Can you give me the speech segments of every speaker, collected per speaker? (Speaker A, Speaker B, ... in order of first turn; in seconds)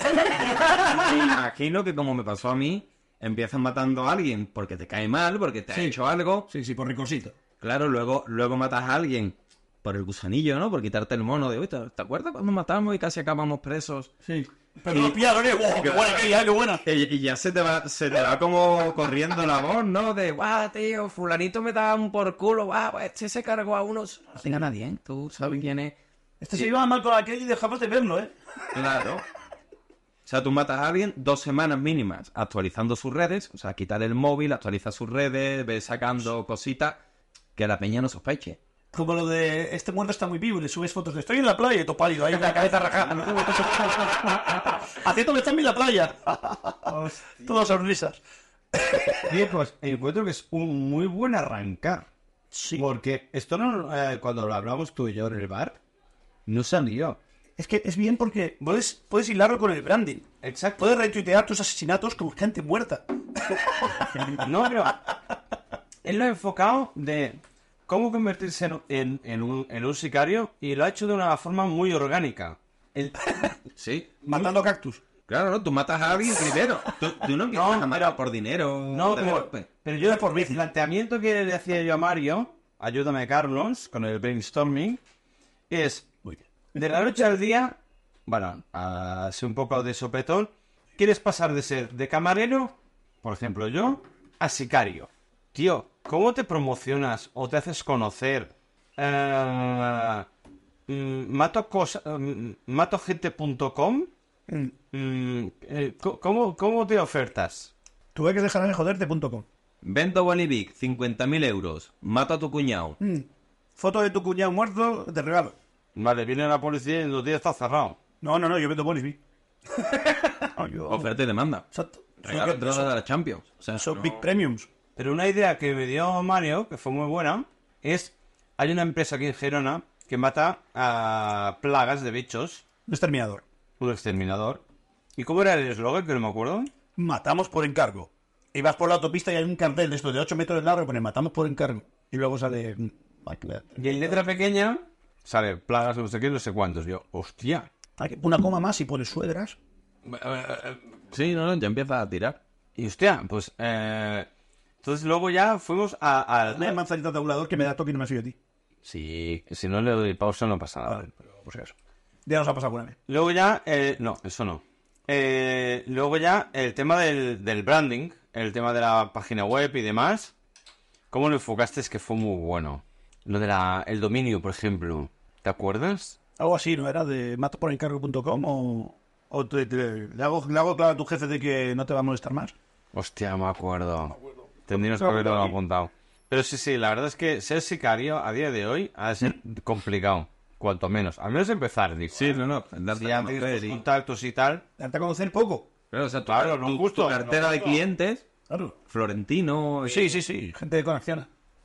Speaker A: 0.4-6.5, 7.6-14.1, 15.8-16.2, 16.8-25.9, 28.7-29.2, 30.2-37.0, 37.6-38.6, 73.8-74.1, 75.3-79.7, 109.8-113.0, 120.9-121.7, 122.2-124.2, 151.1-152.4, 192.1-193.8, 195.9-198.2, 198.9-200.1
Speaker B: 6.5-7.3, 14.2-16.8, 26.4-28.3, 38.9-48.2, 48.7-49.3, 52.5-52.9, 57.6-60.2, 60.8-64.7, 74.2-75.0, 80.0-80.6, 104.5-104.7, 108.2-109.5, 113.0-115.5, 118.2-119.2, 120.4-121.1, 121.7-122.9, 123.8-124.7, 132.9-133.4, 137.0-143.8, 148.0-149.6, 156.5-158.3, 160.9-161.7, 162.2-163.0, 176.4-182.5, 184.9-185.5, 194.8-195.7, 198.5-198.8, 199.8-201.3
Speaker C: 46.9-47.5, 49.2-52.1, 52.8-55.8, 56.5-57.2, 60.4-60.9, 64.4-65.0, 66.0-73.5, 77.5-78.2, 78.9-85.0, 85.7-87.8, 88.3-100.2, 100.9-104.1, 104.9-107.7, 115.9-118.0, 125.0-132.6, 133.8-134.6, 135.2-136.7, 143.8-147.7, 150.1-150.8, 152.8-154.3, 154.8-156.8, 158.8-161.1, 163.1-170.3, 171.1-176.2, 182.9-184.2, 184.7-192.4, 193.0-194.6, 196.3-197.8